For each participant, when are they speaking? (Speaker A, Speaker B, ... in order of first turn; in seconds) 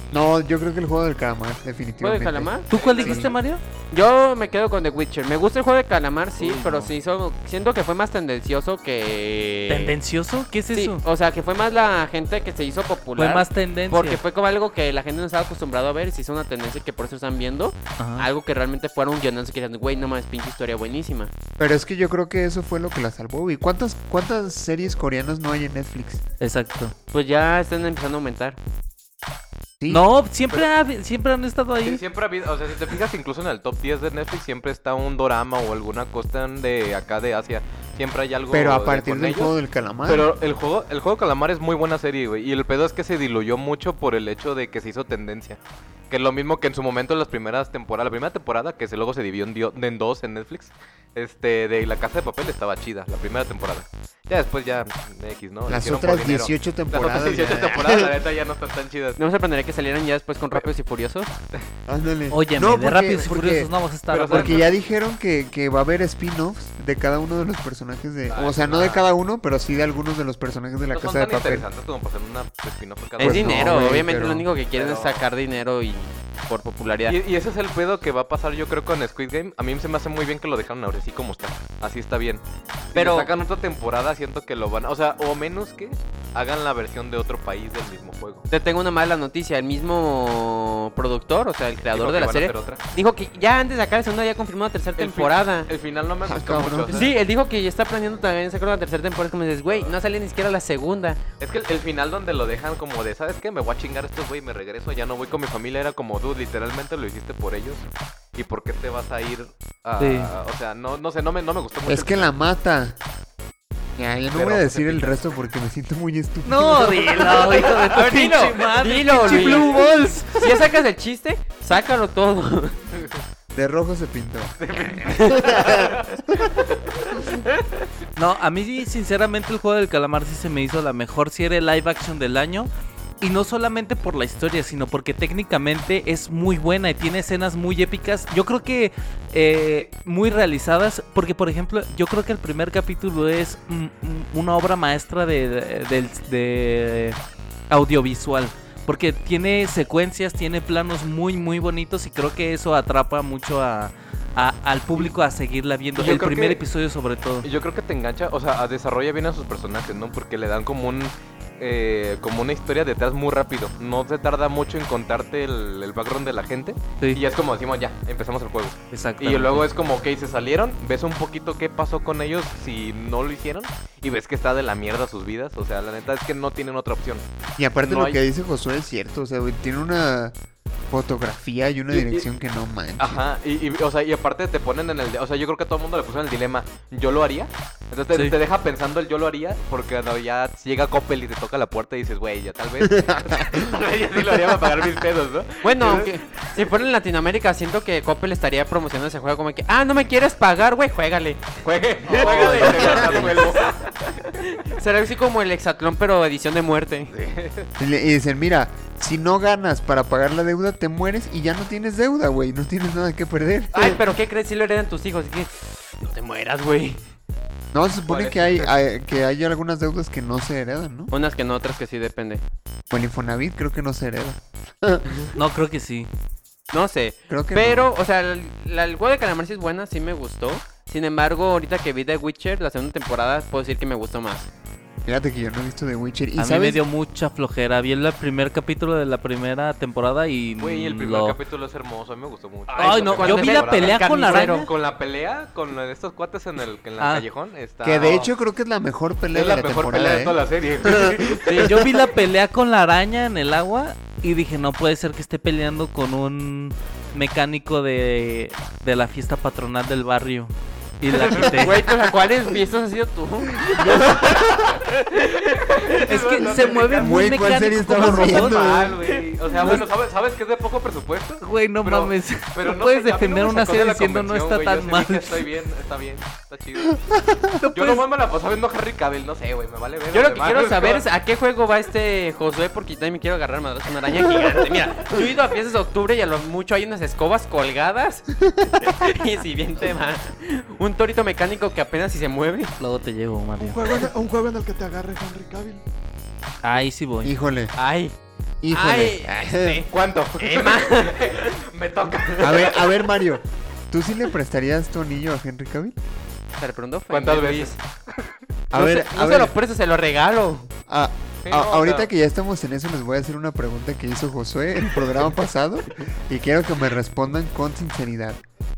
Speaker A: 0.1-3.3, 21.6-26.2, 29.8-30.1, 38.5-40.3, 55.7-58.2, 61.9-63.7, 64.3-71.7, 73.2-74.5, 96.2-97.1, 111.9-113.0, 114.0-117.6, 119.2-120.6, 123.5-126.4, 177.6-180.3, 180.9-183.2, 192.8-193.7, 202.4-203.4, 207.8-214.0, 217.7-221.1, 222.9-225.1, 227.3-227.9, 235.1-236.8, 247.8-251.5, 263.6-264.8, 267.0-269.1, 277.0-277.6, 288.5-288.8, 297.2-297.8, 298.6-299.9, 302.4-306.0, 308.7-309.5, 310.9-318.4
Speaker B: 2.0-3.2, 3.9-9.9, 10.7-21.3, 27.1-28.6, 59.2-61.3, 73.2-77.2, 83.0-83.3, 88.5-95.7, 96.9-101.2, 117.9-119.8, 120.4-122.8, 124.8-125.5, 127.3-127.6, 195.6-201.5, 202.1-203.8, 204.4-207.1, 213.7-217.0, 221.1-222.4, 226.7-234.5, 242.7-244.7, 251.5-251.8, 261.3-266.0, 280.1-292.7, 297.8-298.2, 298.7-301.6, 302.3-302.6, 306.6-307.8, 308.7-310.7
Speaker C: 2.7-3.6, 6.4-6.9, 9.7-11.0, 13.2-14.2, 18.0-18.3, 26.4-26.9, 29.9-32.0, 62.3-64.7, 110.0-110.3, 116.5-120.4, 128.2-132.7, 133.2-147.2, 147.7-157.5, 168.9-169.7, 225.3-226.1, 236.4-241.4, 242.7-244.7, 247.0-247.2, 251.5-261.8, 266.0-268.6, 271.4-275.4, 277.6-278.1, 292.8-293.8, 296.6-297.3
Speaker D: 2.7-3.2, 31.8-39.5, 40.1-45.6, 46.1-59.2, 64.1-64.7, 68.3-69.1, 70.9-74.0, 74.7-75.3, 77.1-88.4, 91.9-92.8, 95.0-97.1, 101.4-112.3, 114.3-115.2, 124.6-127.2, 156.0-156.6, 157.4-177.2, 177.8-178.2, 181.9-182.3, 183.0-196.5, 201.6-203.9, 207.1-207.7, 218.0-218.7, 240.6-248.3, 249.3-251.6, 265.5-277.0, 277.7-281.1, 299.9-302.9, 307.1-308.3, 311.4-312.1
Speaker E: 293.6-295.8